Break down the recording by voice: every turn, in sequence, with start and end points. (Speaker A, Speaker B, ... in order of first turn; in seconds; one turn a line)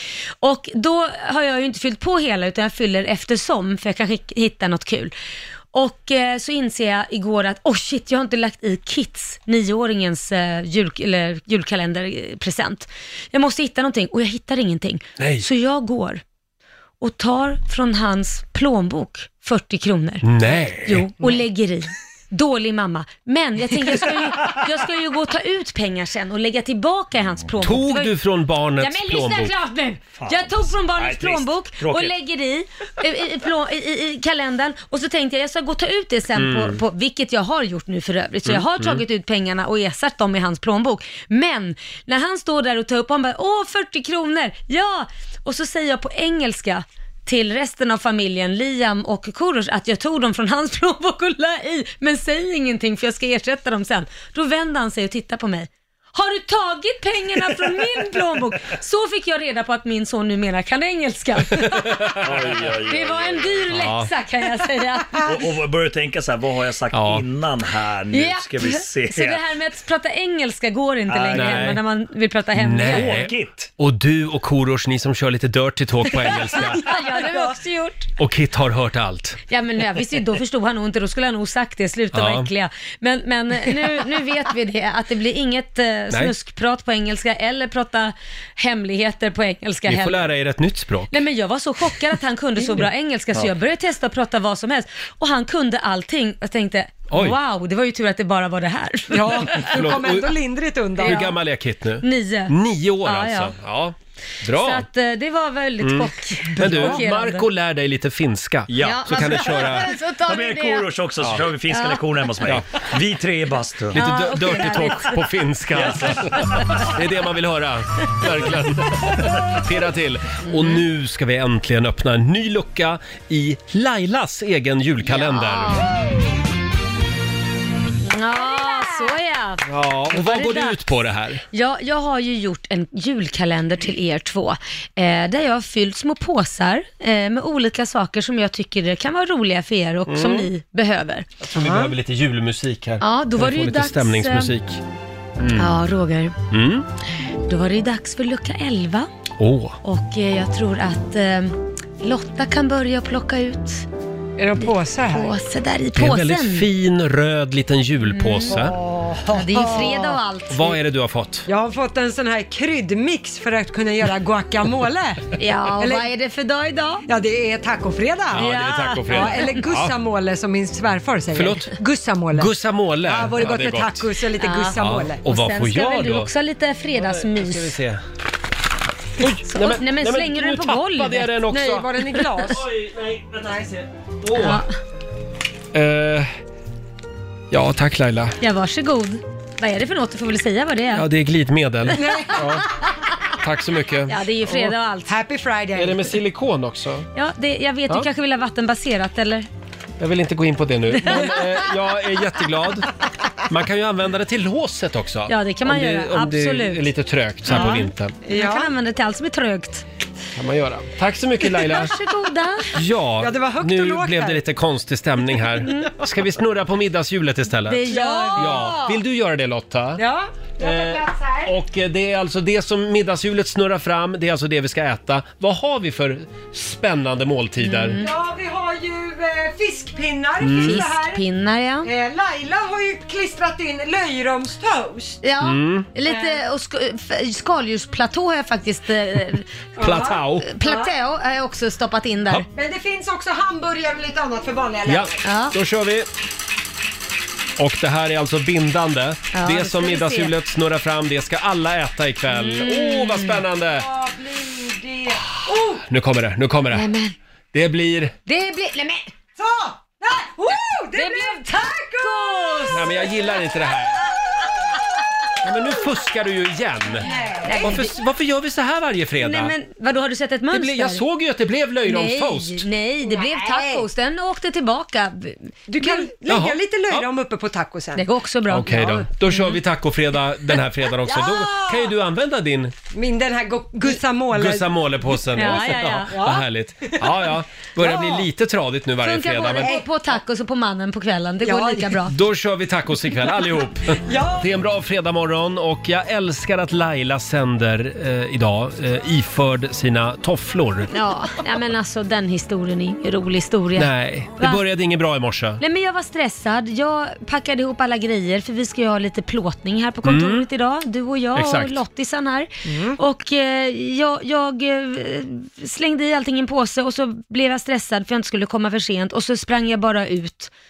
Speaker A: 0.4-5.1
Speaker A: 5.7-16.2
Speaker B: 15.2-15.5
Speaker A: 17.0-20.2
Speaker B: 20.2-21.1
Speaker A: 20.9-28.1
Speaker B: 27.6-29.5
Speaker A: 28.8-62.2
Speaker C: 30.2-32.1
Speaker B: 36.4-36.8
Speaker B: 38.5-39.0
Speaker B: 61.5-62.3
Speaker C: 62.2-63.7
Speaker A: 62.9-65.3
Speaker B: 63.7-64.1
Speaker C: 65.2-69.4
Speaker B: 66.9-67.2
Speaker A: 68.1-73.3
Speaker C: 71.1-71.8
Speaker B: 71.3-71.8
Speaker B: 72.6-76.8
Speaker C: 72.9-73.7
Speaker A: 76.6-78.1
Speaker D: 76.6-77.6
Speaker B: 78.2-79.4
Speaker A: 79.5-90.3
Speaker B: 82.1-82.5
Speaker B: 89.9-91.1
Speaker A: 91.1-99.9
Speaker D: 92.6-92.9
Speaker B: 97.1-97.4
Speaker D: 99.1-101.3
Speaker B: 99.5-100.3
Speaker B: 101.0-104.8
Speaker A: 101.0-101.4
Speaker A: 102.0-103.5
Speaker A: 104.5-107.5
Speaker B: 105.8-109.9
Speaker C: 108.7-114.0
Speaker A: 108.8-111.0
Speaker B: 111.2-111.5
Speaker A: 111.7-112.2
Speaker B: 112.5-112.9
Speaker A: 113.9-115.3
Speaker B: 113.9-125.9
Speaker C: 115.8-116.9
Speaker A: 120.5-120.8
Speaker A: 125.1-125.9
Speaker A: 128.1-130.8
Speaker D: 128.6-128.9
Speaker B: 129.7-131.4
Speaker A: 131.5-141.3
Speaker B: 140.1-140.5
Speaker B: 141.4-144.8
Speaker D: 141.6-141.9
Speaker A: 143.0-144.5
Speaker B: 145.4-145.7
Speaker A: 145.6-146.4
Speaker B: 146.5-146.9
Speaker A: 147.5-149.1
Speaker B: 149.4-149.8
Speaker A: 149.8-153.9
Speaker D: 154.4-155.4
Speaker A: 155.1-156.7
Speaker B: 156.0-158.8
Speaker A: 158.1-158.6
Speaker D: 158.5-160.2
Speaker A: 159.3-160.8
Speaker B: 160.5-161.5
Speaker D: 161.5-165.2
Speaker A: 165.4-167.1
Speaker D: 165.8-166.1
Speaker D: 167.1-168.5
Speaker B: 168.3-169.9
Speaker A: 168.3-169.5
Speaker D: 169.1-175.2
Speaker B: 171.3-171.8
Speaker B: 172.3-174.1
Speaker A: 174.4-177.8
Speaker B: 174.8-176.3
Speaker B: 177.0-178.0
Speaker B: 179.2-181.9
Speaker A: 179.5-182.5
Speaker D: 181.6-182.6
Speaker B: 182.5-184.6
Speaker A: 184.3-184.7
Speaker B: 185.7-186.3
Speaker B: 187.5-188.4
Speaker A: 188.4-191.1
Speaker B: 190.9-192.7
Speaker A: 191.9-192.9
Speaker D: 191.9-192.6
Speaker B: 193.4-194.7
Speaker A: 194.1-195.2
Speaker D: 195.1-196.2
Speaker B: 195.8-197.1
Speaker A: 197.2-199.5
Speaker B: 200.0-202.9
Speaker A: 200.9-201.6
Speaker B: 203.5-208.2
Speaker A: 205.3-206.9
Speaker A: 207.5-209.8
Speaker D: 207.5-208.7
Speaker B: 210.3-211.9
Speaker A: 211.5-212.8
Speaker B: 212.7-220.0
Speaker D: 213.2-214.4
Speaker A: 215.6-215.9
Speaker A: 217.7-219.0
Speaker D: 217.9-218.8
Speaker D: 220.0-221.5
Speaker B: 220.6-228.0
Speaker A: 227.6-228.1
Speaker D: 228.0-231.2
Speaker B: 230.4-230.9
Speaker A: 230.6-231.9
Speaker D: 231.8-235.2
Speaker A: 235.2-242.4
Speaker B: 235.4-235.9
Speaker D: 236.1-236.4
Speaker D: 239.8-240.9
Speaker B: 239.8-240.5
Speaker D: 242.5-245.2
Speaker B: 244.9-246.1
Speaker A: 245.2-245.6
Speaker B: 247.6-253.9
Speaker A: 249.3-250.3
Speaker A: 252.4-253.4
Speaker D: 253.7-255.8
Speaker B: 255.9-256.9
Speaker A: 256.7-257.1
Speaker B: 257.5-258.1
Speaker A: 258.3-259.1
Speaker D: 259.4-263.1
Speaker A: 260.9-262.9
Speaker B: 262.7-264.0
Speaker B: 265.4-269.5
Speaker D: 267.0-267.9
Speaker A: 267.4-267.9
Speaker A: 269.2-271.1
Speaker B: 270.5-272.6
Speaker A: 271.9-276.1
Speaker D: 273.0-273.9
Speaker D: 275.7-278.1
Speaker B: 276.3-277.1
Speaker A: 278.0-279.6
Speaker B: 278.5-282.7
Speaker D: 278.8-279.0
Speaker D: 281.1-281.9
Speaker D: 282.9-284.7
Speaker B: 284.3-289.7
Speaker A: 285.3-286.3
Speaker D: 286.1-287.3
Speaker D: 287.8-288.3
Speaker A: 289.0-292.2
Speaker D: 289.6-290.2
Speaker D: 291.4-292.0
Speaker B: 292.1-300.9
Speaker D: 293.9-294.6
Speaker A: 300.9-304.6
Speaker B: 303.8-305.6
Speaker A: 305.6-320.5
Speaker B: 310.1-310.5
Speaker B: 311.4-311.8
Speaker D: 312.6-313.0